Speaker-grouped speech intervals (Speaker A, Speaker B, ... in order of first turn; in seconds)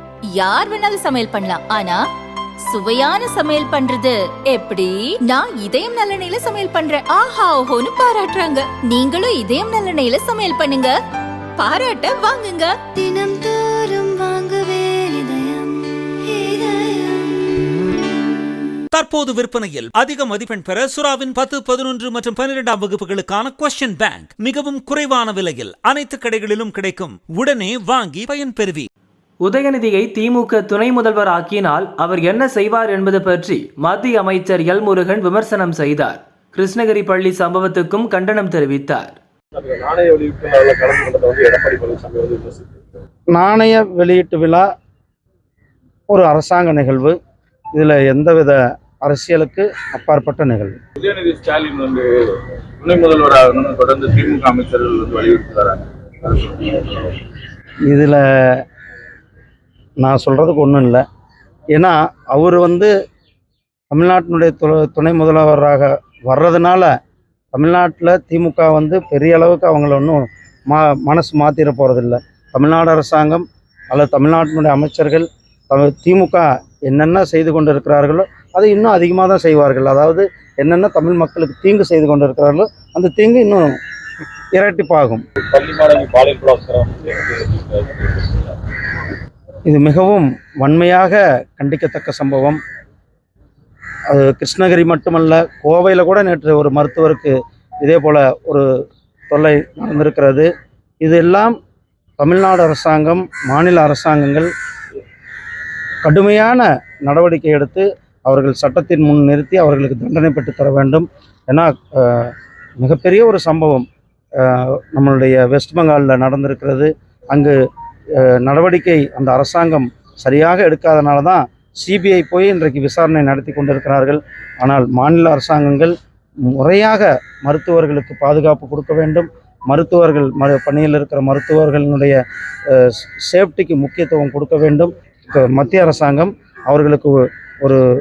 Speaker A: 0.3-2.0, 2.6-10.9, 11.6-12.7
Speaker B: 12.9-17.7
Speaker C: 18.9-28.9
Speaker D: 29.4-39.1
Speaker E: 39.5-42.7, 51.0-57.2, 85.4-88.5
Speaker F: 43.3-44.6, 46.1-47.1, 47.7-50.8, 57.9-58.6, 60.0-61.0, 61.7-62.9, 63.9-66.9, 67.5-83.7, 84.5-85.2, 89.7-92.6, 94.1-98.7, 99.3-100.5, 101.0-101.5, 102.2-104.5, 106.0-113.8, 114.4-117.6, 118.2-125.9, 126.5-137.8